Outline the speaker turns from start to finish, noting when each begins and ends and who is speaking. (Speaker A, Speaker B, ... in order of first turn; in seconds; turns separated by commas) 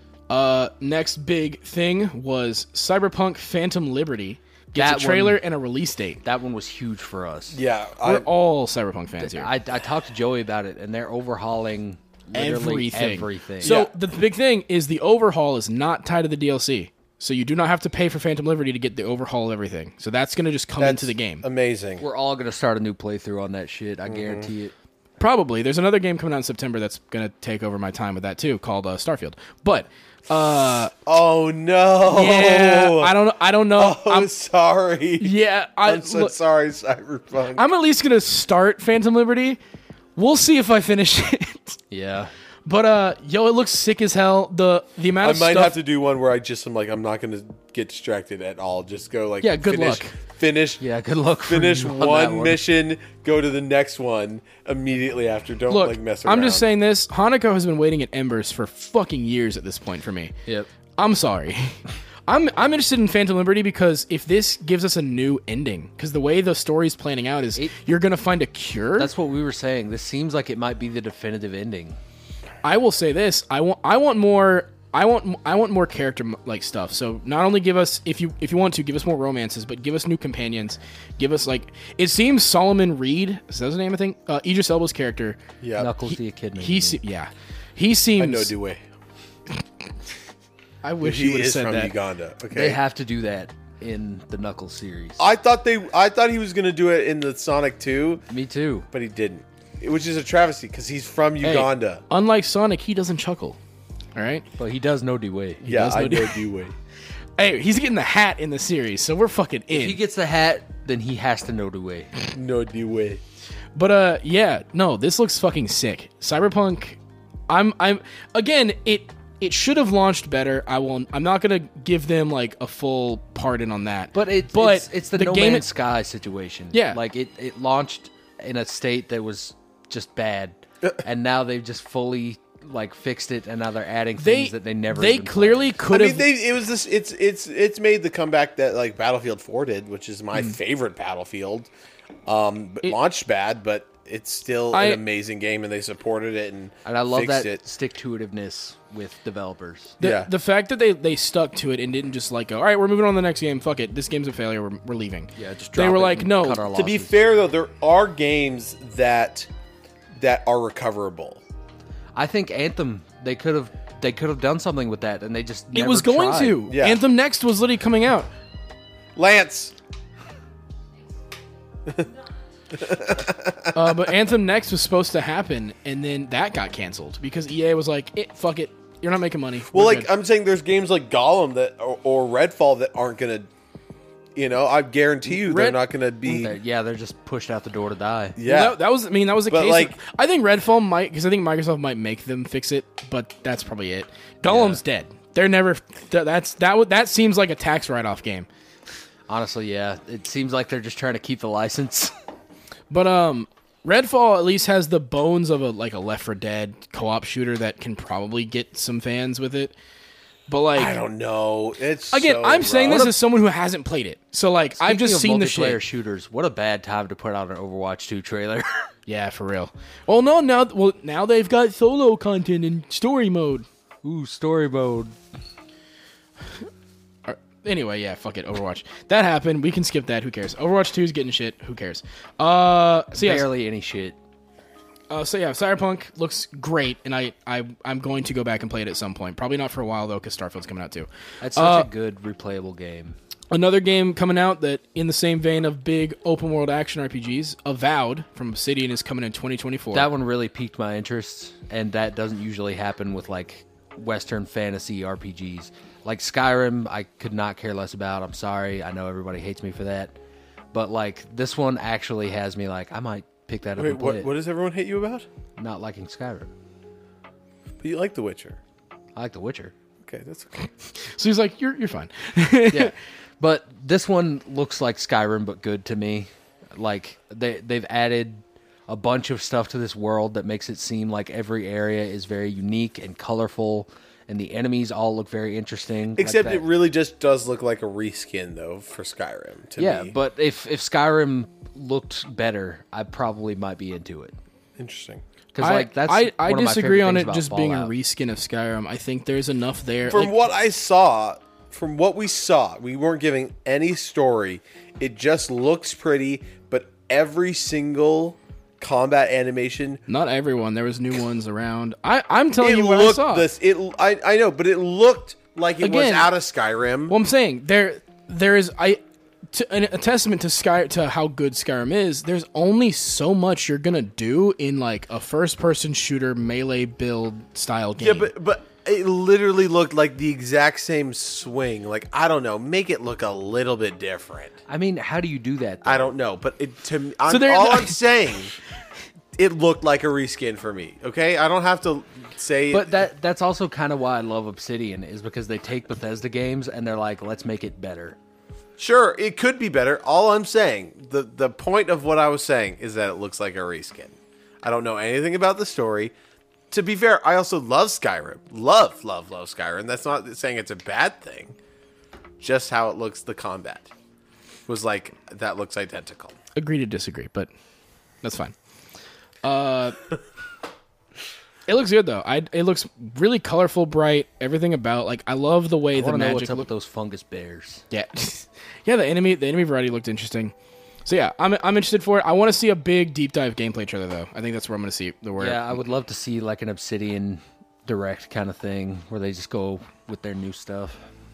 Speaker A: 0.3-6.2, Speaker B: 4.7-5.4, Speaker B: 6.2-7.6, Speaker C: 7.5-8.3, Speaker A: 8.0-9.5, Speaker B: 9.2-13.8, Speaker A: 12.3-21.4, Speaker C: 13.6-13.9, Speaker C: 20.8-22.0, Speaker B: 22.0-24.7, Speaker C: 24.1-24.5, Speaker A: 25.2-30.9, Speaker C: 31.1-37.6, Speaker A: 32.0-34.3, Speaker A: 35.2-36.3, Speaker A: 37.5-39.6, Speaker A: 40.1-41.8, Speaker B: 41.9-42.3, Speaker A: 42.6-45.8, Speaker C: 45.2-50.8, Speaker A: 49.4-50.1, Speaker B: 50.8-52.6, Speaker C: 51.5-56.7, Speaker A: 55.7-60.3, Speaker A: 61.0-69.1, Speaker B: 69.0-72.0, Speaker A: 72.6-85.4, Speaker C: 85.6-85.9, Speaker B: 85.8-87.0, Speaker A: 86.6-88.5, Speaker C: 88.2-88.8, Speaker A: 90.8-92.0, Speaker C: 91.0-92.8, Speaker B: 92.5-95.2, Speaker C: 95.2-98.2, Speaker B: 98.3-98.9, Speaker C: 98.9-102.0, Speaker A: 101.4-103.6, Speaker A: 104.1-104.5, Speaker B: 104.6-105.6, Speaker C: 105.6-106.7, Speaker A: 105.6-106.4, Speaker A: 107.4-110.0, Speaker B: 109.7-112.1, Speaker C: 112.3-113.2, Speaker A: 113.7-125.7, Speaker B: 124.1-135.8, Speaker A: 126.7-127.0, Speaker A: 134.2-136.3, Speaker C: 135.9-141.7, Speaker C: 142.3-147.6, Speaker A: 144.7-145.0, Speaker B: 146.8-149.9, Speaker C: 150.0-150.3, Speaker A: 150.0-156.6, Speaker B: 155.4-157.2, Speaker C: 156.7-159.5, Speaker C: 160.2-161.4, Speaker B: 162.1-166.6, Speaker A: 165.7-168.3, Speaker C: 166.7-167.0, Speaker C: 169.2-169.7, Speaker C: 172.7-173.7, Speaker A: 173.7-180.1, Speaker C: 179.7-183.5, Speaker C: 184.4-186.6, Speaker A: 185.2-185.8, Speaker B: 186.3-188.4, Speaker C: 188.4-188.8, Speaker A: 188.4-198.5, Speaker C: 189.5-189.9, Speaker B: 194.4-194.8, Speaker B: 199.3-202.1, Speaker A: 202.9-209.7, Speaker A: 210.5-211.0, Speaker C: 210.8-213.1, Speaker A: 212.1-215.8, Speaker B: 212.8-213.1, Speaker B: 214.8-218.9, Speaker A: 219.1-223.7, Speaker B: 224.0-225.2, Speaker A: 227.3-233.5, Speaker B: 233.1-234.2, Speaker A: 235.1-241.9, Speaker B: 241.4-243.2, Speaker A: 243.5-250.1, Speaker B: 249.9-260.2, Speaker B: 260.7-264.3, Speaker C: 263.8-265.3, Speaker B: 265.6-266.5, Speaker C: 267.8-268.6, Speaker B: 269.1-269.7, Speaker C: 270.0-270.7, Speaker A: 270.9-272.9, Speaker B: 272.7-286.6, Speaker C: 286.1-290.1, Speaker B: 289.8-294.4, Speaker C: 294.8-295.2, Speaker B: 295.5-297.9, Speaker A: 295.6-300.3, Speaker C: 300.1-310.0, Speaker A: 310.1-313.5, Speaker C: 312.6-317.1, Speaker A: 315.8-316.3, Speaker A: 317.1-319.0, Speaker A: 319.5-328.3, Speaker C: 328.0-334.6, Speaker B: 334.7-336.1, Speaker C: 335.8-338.5, Speaker A: 337.3-338.0, Speaker C: 339.3-343.0, Speaker B: 342.7-348.2, Speaker C: 348.8-356.1, Speaker C: 356.7-361.6, Speaker C: 362.4-363.9, Speaker C: 364.7-366.4, Speaker A: 366.6-367.5, Speaker A: 368.2-368.5, Speaker A: 369.4-370.0, Speaker A: 371.7-376.7, Speaker B: 375.9-377.8, Speaker A: 377.9-380.5, Speaker A: 381.1-385.8, Speaker B: 385.4-391.0